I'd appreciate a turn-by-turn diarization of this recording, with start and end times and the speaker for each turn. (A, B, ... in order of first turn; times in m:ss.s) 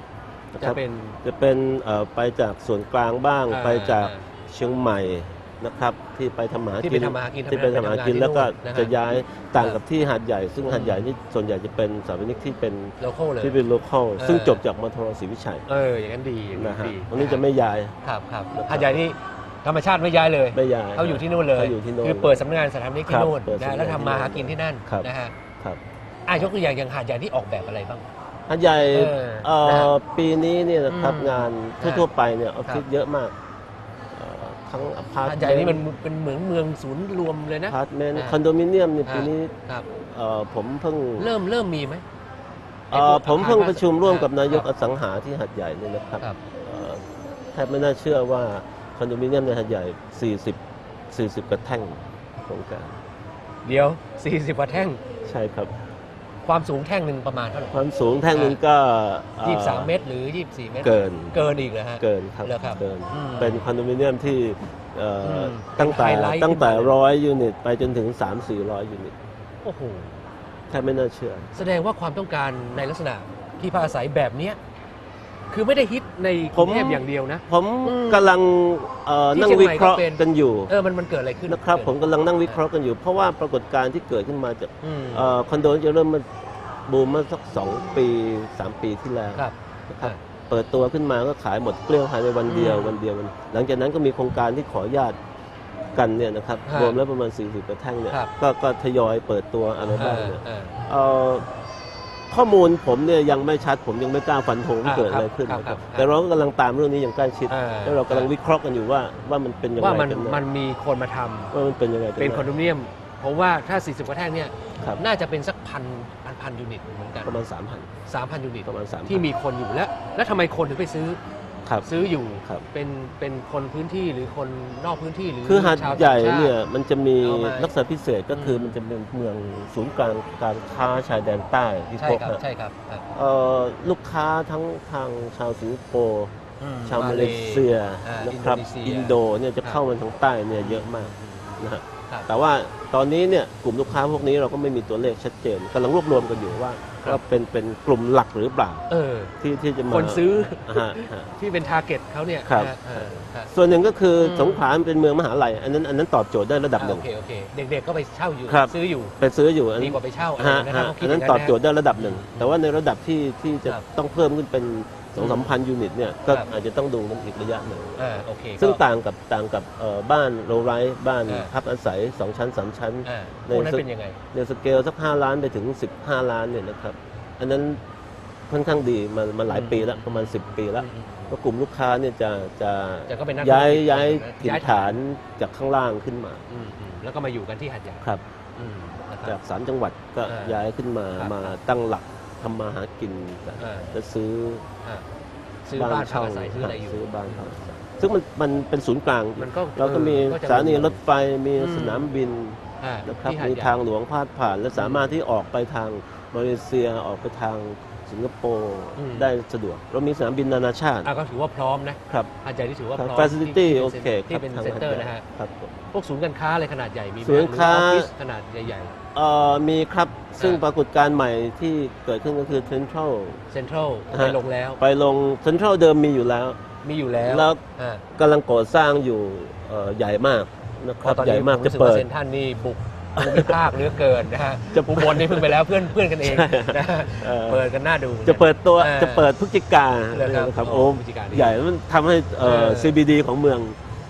0:00.5-0:15.6 A
0:00.6-0:01.2 B
0:03.5-0:04.3 B
0:06.8-0:08.9 B
0:10.7-0:11.0 B
0:13.0-0:13.6 B
0:14.2-0:14.6 B
0:15.7-0:17.4 B
0:16.5-0:18.0 A
0:18.0-0:25.3 B
0:18.5-0:19.0 A
0:20.5-0:22.4 A
0:23.1-0:25.1 A
0:26.3-0:28.0 B
0:28.5-0:33.3 A
0:28.8-0:29.9 B
0:30.9-0:32.0 B
0:34.1-0:35.8 A
0:35.2-0:38.4 B
0:37.7-0:41.3 A
0:39.0-0:39.8 B
0:41.2-0:42.0 B
0:42.9-0:44.7 B
0:42.9-0:50.6 A
0:51.1-0:52.9 A
0:53.6-0:55.0 B
0:55.2-0:55.7 A
0:56.4-0:57.8 B
0:57.7-0:59.9 A
0:58.3-0:58.6 B
0:59.4-1:03.7 B
1:00.8-1:01.4 A
1:02.0-1:09.1 A
1:05.2-1:06.9 B
1:09.6-1:10.2 B
1:10.7-1:11.6 A
1:11.5-1:14.6 B
1:15.5-1:18.3 B
1:16.5-1:20.7 A
1:19.3-1:22.0 B
1:21.5-1:35.2 A
1:24.8-1:25.3 B
1:29.3-1:30.2 B
1:32.5-1:33.0 B
1:35.9-1:41.4 A
1:36.6-1:37.0 B
1:40.0-1:40.7 B
1:42.3-1:50.4 A
1:44.8-1:46.1 B
1:47.5-1:48.3 B
1:49.8-1:51.5 B
1:51.5-1:52.5 A
1:52.2-1:57.4 B
1:57.2-1:57.9 A
1:58.0-2:01.2 B
1:58.6-1:59.2 A
2:01.8-2:06.5 B
2:05.4-2:12.4 A
2:07.2-2:07.7 B
2:08.3-2:08.8 B
2:12.0-2:13.0 B
2:13.1-2:16.3 A
2:16.6-2:19.8 B
2:16.8-2:28.8 A
2:20.6-2:22.3 B
2:28.9-2:29.3 B
2:29.4-2:31.3 A
2:29.9-2:33.5 B
2:32.4-2:37.0 A
2:34.2-2:34.6 B
2:36.8-2:39.1 B
2:38.5-2:57.8 A
2:39.8-2:42.5 B
2:45.2-2:45.5 B
2:48.0-2:48.8 B
2:53.0-2:54.2 B
2:58.5-3:06.4 A
2:59.5-3:01.3 B
3:03.1-3:05.0 B
3:06.5-3:08.0 B
3:08.6-3:09.4 B
3:09.2-3:14.6 A
3:10.2-3:10.6 B
3:11.2-3:11.5 B
3:13.6-3:13.9 B
3:15.6-3:17.8 B
3:15.7-3:31.1 A
3:19.4-3:21.0 B
3:21.6-3:22.1 B
3:22.8-3:23.8 B
3:24.8-3:25.1 B
3:29.0-3:29.3 B
3:31.0-3:35.2 B
3:33.0-3:35.7 A
3:35.9-3:38.9 B
3:37.2-3:38.1 A
3:39.1-3:43.4 A
3:43.5-3:44.8 B
3:44.1-3:46.6 A
3:46.8-3:48.0 B
3:47.2-3:47.6 A
3:48.2-3:52.0 A
3:51.0-3:59.3 B
3:53.2-3:54.0 A
3:54.7-3:57.7 A
3:58.2-4:03.8 A
4:00.1-4:01.6 B
4:02.4-4:03.0 B